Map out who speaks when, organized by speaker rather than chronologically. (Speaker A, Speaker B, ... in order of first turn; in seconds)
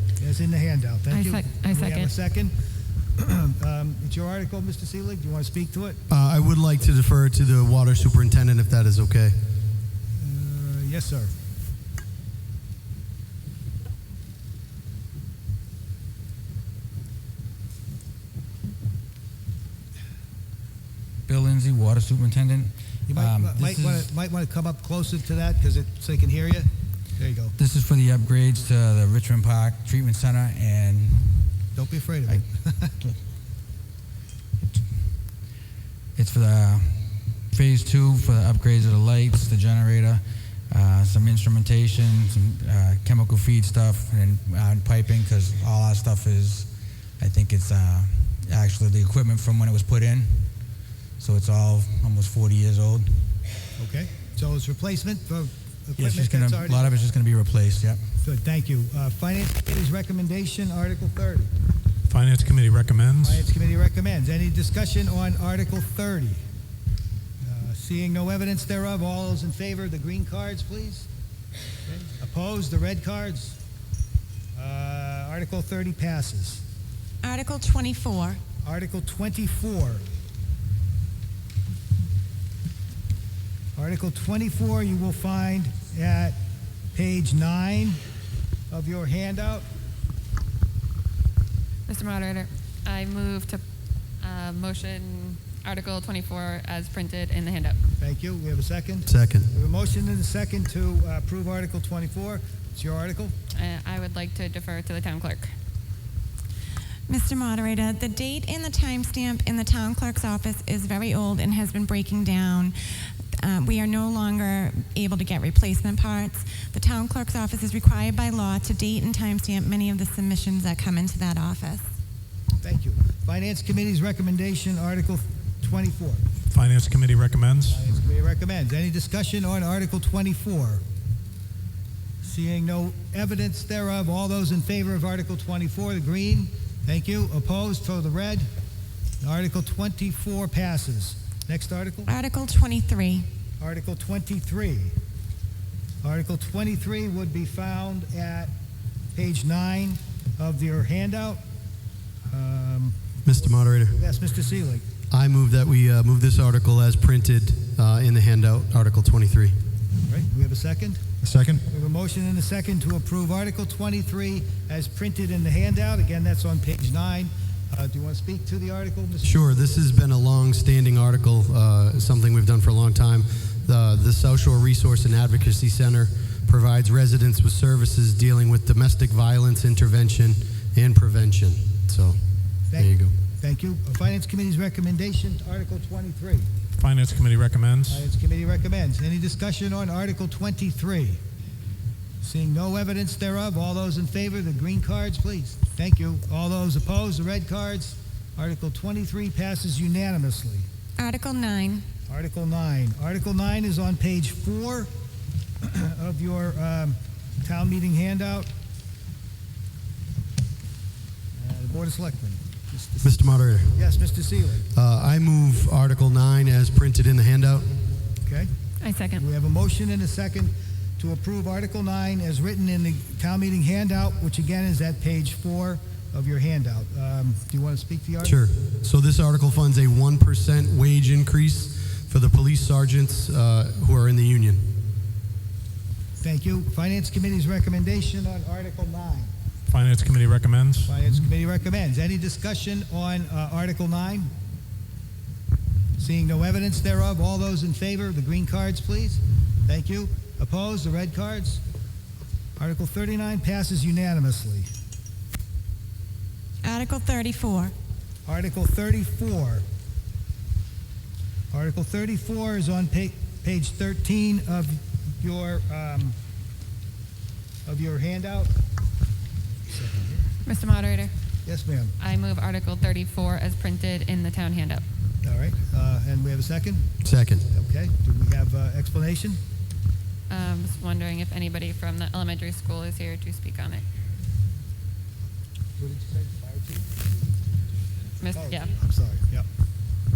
Speaker A: 0.2-2.5, 3.2-6.0, 10.2-11.3, 23.1-27.6, 31.8-33.1, 53.8-57.1, 58.2-61.5, 63.2-66.4, 67.4-71.1, 71.9-73.6, 74.5-76.6, 78.6-80.0, 83.8-86.4, 86.9-88.0, 88.7-89.7, 98.0-103.4, 122.6-126.2, 127.7-130.8, 132.2-138.5, 139.2-142.1, 143.6-144.9, 146.0-148.5, 149.2-151.4, 152.3-154.9, 160.1-161.2, 161.7-169.6, 182.7-186.5, 187.9-191.2, 192.2-200.7, 202.1-204.9, 205.6-208.5, 211.4-214.7, 218.2-218.5, 219.2-228.4, 236.2-239.3, 240.8-244.3, 246.0-251.6, 252.6-254.7, 258.3-259.6, 261.5-266.2, 267.7-268.5, 269.7-270.3, 271.4-271.9, 275.2-276.9, 277.5-279.4, 285.8-287.1, 288.3-289.5
Speaker B: 1.1-2.1, 91.9-93.6, 94.2-97.8, 103.5-105.5, 218.8-219.2, 270.4-271.1, 272.0-274.8, 280.3-283.8, 288.2-288.7
Speaker C: 6.1-9.3, 99.1-99.5, 153.3-154.0, 155.1-159.6, 161.2-161.6, 169.2-182.2, 182.8-183.1, 213.0-213.8, 214.7-217.7, 228.2-234.7, 277.0-277.4
Speaker D: 21.3-24.1, 27.6-31.7, 36.2-50.5, 51.2-53.4, 56.0-58.0
Speaker E: 62.1-63.4, 126.5-127.8, 186.8-188.1, 239.7-240.9
Speaker F: 77.2-78.4, 107.1-112.8, 113.4-121.8, 142.1-143.3, 201.0-201.8, 256.6-257.7